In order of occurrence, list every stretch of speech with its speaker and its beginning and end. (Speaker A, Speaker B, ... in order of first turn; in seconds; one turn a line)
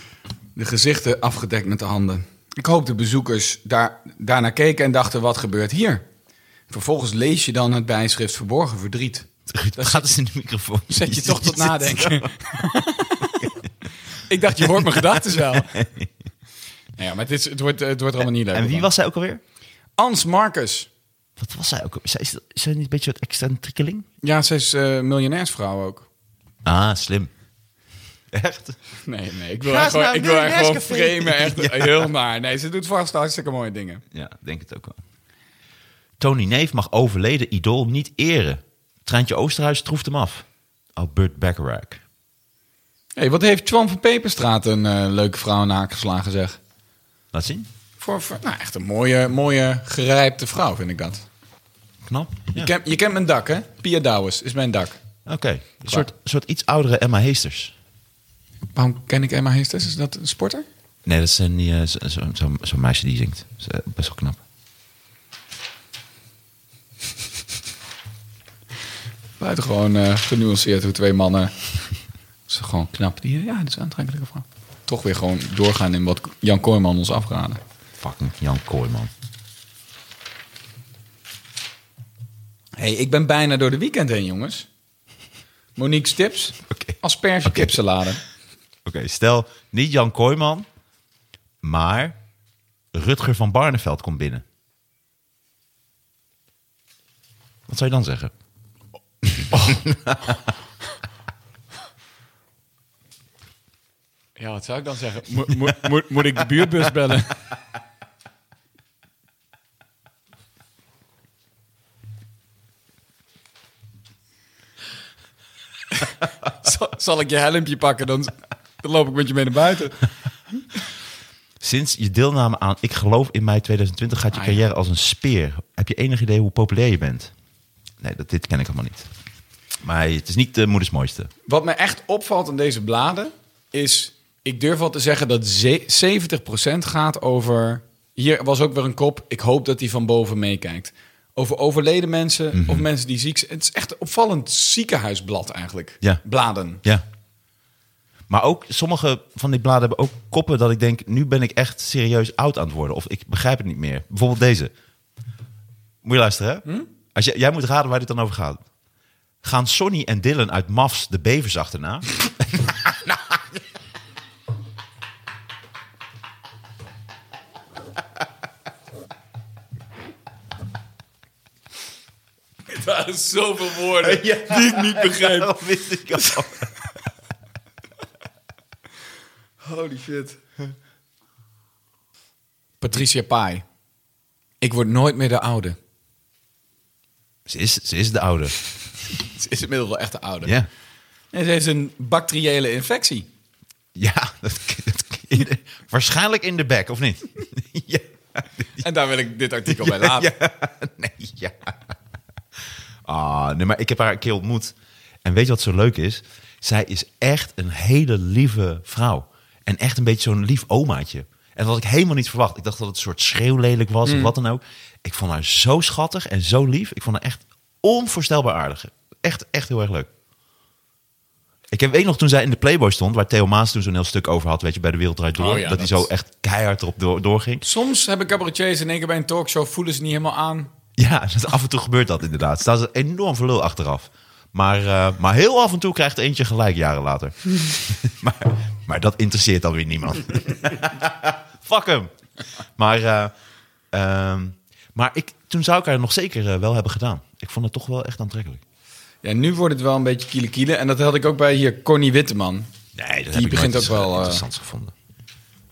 Speaker A: 0.5-6.0
Speaker A: 6.7-10.1
Speaker B: 9.5-12.3
Speaker A: 10.9-13.5
Speaker A: 14.3-15.8
Speaker B: 14.5-16.1
Speaker A: 17.0-18.9
Speaker B: 18.5-19.4
Speaker A: 20.0-20.9
Speaker B: 21.4-24.1
Speaker A: 24.2-26.1
Speaker B: 26.6-27.3
Speaker B: 28.3-28.8
Speaker A: 29.0-34.0
Speaker B: 29.6-32.1
Speaker B: 34.1-35.0
Speaker B: 36.2-40.4
Speaker B: 41.0-42.0
Speaker A: 43.1-46.6
Speaker B: 47.3-47.7
Speaker A: 48.0-51.2
Speaker B: 52.0-52.7
Speaker A: 52.5-55.0
Speaker B: 55.2-57.7
Speaker A: 58.7-60.6
Speaker B: 61.0-64.4
Speaker A: 69.4-71.5
Speaker A: 72.5-77.6
Speaker B: 78.0-79.1
Speaker A: 82.8-84.7
Speaker A: 85.8-88.2
Speaker B: 86.7-87.7
Speaker B: 88.8-90.7
Speaker B: 91.6-92.2
Speaker B: 92.9-94.4
Speaker B: 97.7-98.3
Speaker B: 99.4-100.4
Speaker A: 99.5-99.8
Speaker A: 104.4-107.3
Speaker A: 116.0-120.0
Speaker B: 121.6-127.3
Speaker A: 124.3-124.6
Speaker B: 128.0-129.1
Speaker B: 129.8-131.3
Speaker A: 131.5-146.8
Speaker B: 142.5-142.8
Speaker B: 148.3-154.7
Speaker B: 156.0-158.6
Speaker B: 159.4-163.4
Speaker A: 172.7-175.5
Speaker B: 174.0-176.7
Speaker A: 179.6-180.4
Speaker A: 182.8-183.6
Speaker A: 184.6-185.8
Speaker B: 187.4-188.5
Speaker A: 189.1-190.5
Speaker A: 191.3-193.3
Speaker B: 193.9-198.8
Speaker A: 198.8-200.3
Speaker B: 199.7-201.9
Speaker B: 203.1-220.1
Speaker A: 214.0-214.3
Speaker B: 221.7-227.6
Speaker A: 225.4-226.1
Speaker A: 227.6-230.7
Speaker B: 231.0-242.1
Speaker B: 242.8-243.3
Speaker B: 243.9-248.6
Speaker A: 249.2-252.7
Speaker B: 252.9-254.9
Speaker A: 253.3-254.4